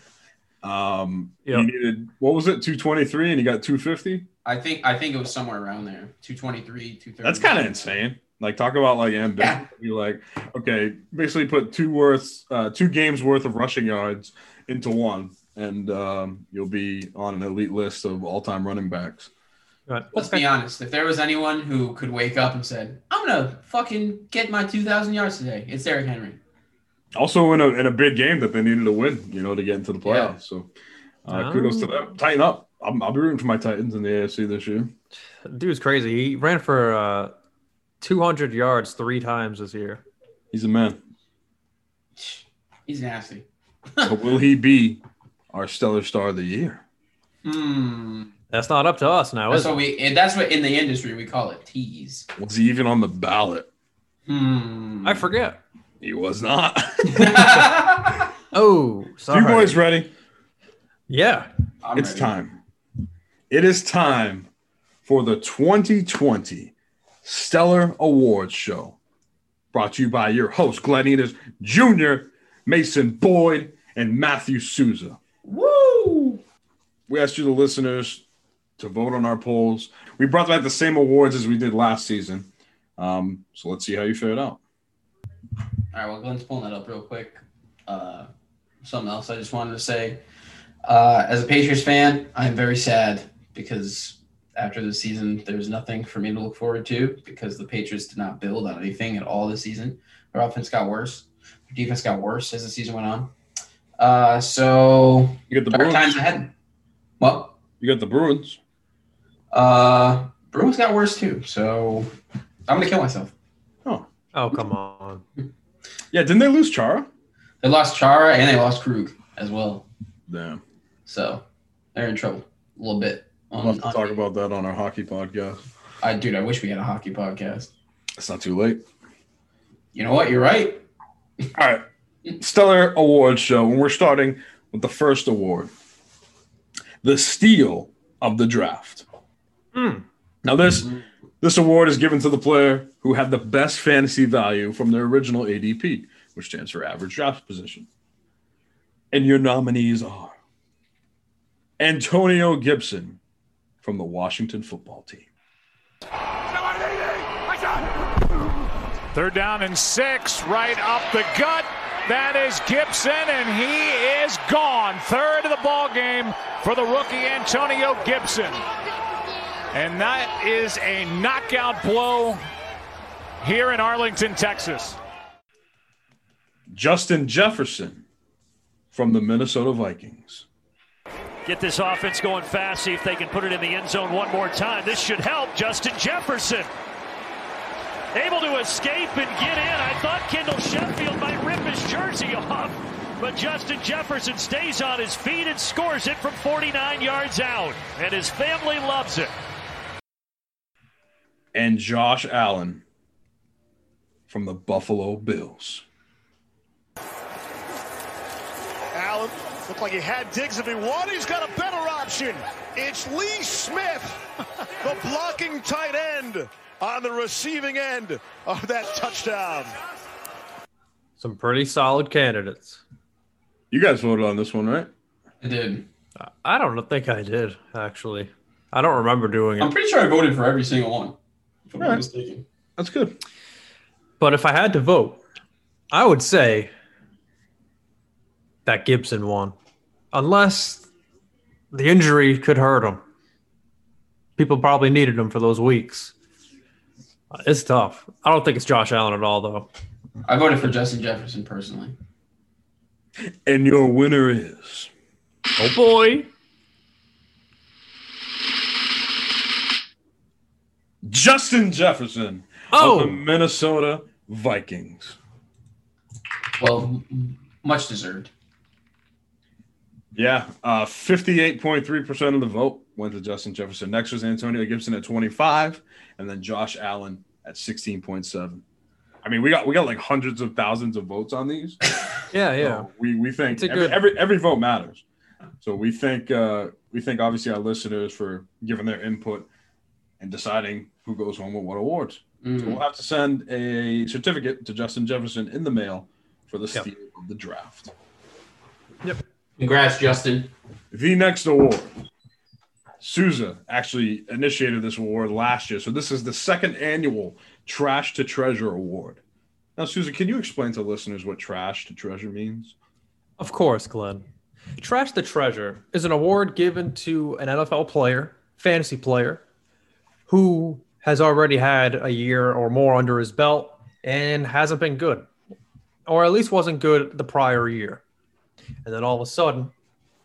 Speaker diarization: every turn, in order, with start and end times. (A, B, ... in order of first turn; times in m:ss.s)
0:00.6-0:04.3 A
0:04.4-0:07.9 B
0:07.2-0:19.3 A
0:19.9-0:20.4 C
0:20.2-0:26.4 B
0:27.2-0:30.7 A
0:30.0-0:30.4 B
0:31.2-0:34.9 A
0:31.3-0:32.1 C
0:35.4-0:37.3 C
0:38.0-0:40.0 C
0:40.5-0:41.0 A
0:42.2-0:44.2 B
0:44.0-0:46.8 A
0:47.4-0:48.3 B
0:48.5-0:49.8 C
0:49.5-0:52.3 B
0:52.4-0:53.7 A
0:54.3-0:55.2 B
0:55.0-0:55.6 C
0:56.0-0:57.7 A
0:57.1-0:58.3 B
0:58.5-0:59.8 C
0:59.3-1:00.1 A
1:01.1-1:01.5 C
1:01.8-1:02.3 B
1:02.0-1:02.6 A
1:03.5-1:04.5 A
1:05.0-1:06.7 A
1:07.2-1:09.0 A
1:09.7-1:15.2 A
1:15.4-1:16.4 B
1:17.1-1:18.2 A
1:18.8-1:24.6 A
1:25.9-1:28.3 B
1:28.8-1:30.2 B
1:30.8-1:43.3 B
1:44.0-1:46.5 B
1:45.5-1:46.2 A
1:47.2-1:47.6 B
1:47.8-1:48.6 A
1:49.5-1:52.1 B
1:52.7-1:53.3 B
1:54.3-1:55.2 C
1:56.1-1:57.1 A
1:57.6-1:59.9 B
2:00.3-2:00.6 A
2:01.1-2:01.4 B
2:01.9-2:04.2 B
2:03.6-2:05.6 A
2:06.0-2:07.7 B
2:08.2-2:08.8 A
2:09.9-2:10.8 B
2:11.5-2:11.9 A
2:12.4-2:15.7 A
2:17.0-2:19.0 A
2:19.7-2:20.0 C
2:20.4-2:27.9 A
2:29.1-2:30.3 A
2:31.8-2:33.2 A
2:33.8-2:35.3 A
2:39.1-2:48.6 D
2:49.7-2:52.4 D
2:53.4-2:55.0 D
2:56.7-2:58.0 A
2:58.9-3:00.5 A
3:01.5-3:06.7 E
3:08.1-3:19.4 E
3:21.5-3:22.8 A
3:24.3-3:25.8 A
3:28.9-3:34.2 F
3:34.8-3:39.8 F
3:41.2-3:42.8 C
3:43.7-3:44.9 A
3:45.4-3:45.9 B
3:46.2-3:49.7 C
3:49.6-3:51.2 B
3:51.7-3:52.4 B
3:52.8-3:53.2 A
3:54.2-3:55.2 C
3:55.9-3:56.7 C
3:58.7-3:59.6 C
4:00.1-4:00.9 C
4:01.7-4:03.0 C
4:04.4-4:06.1 C
4:07.3-4:09.7 C
4:10.3-4:12.0 B
4:13.5-4:14.9 A
4:15.6-4:16.3 C
4:21.0-4:25.2 A
4:22.7-4:23.2 C
4:26.6-4:28.3 B
4:30.2-4:38.6 A
4:39.2-4:41.8 A
4:42.3-4:42.9 C
4:42.6-4:45.0 A
4:43.5-4:44.0 C
4:45.6-4:49.5 A
4:50.2-4:57.9 A
4:52.4-4:52.8 B
4:59.6-5:00.5 B
5:00.9-5:01.9 A
5:03.0-5:09.2 A
5:09.8-5:12.8 A
5:13.4-5:14.2 C
5:14.8-5:19.4 C
5:20.3-5:25.3 C
5:26.1-5:28.0 C
5:28.8-5:29.7 C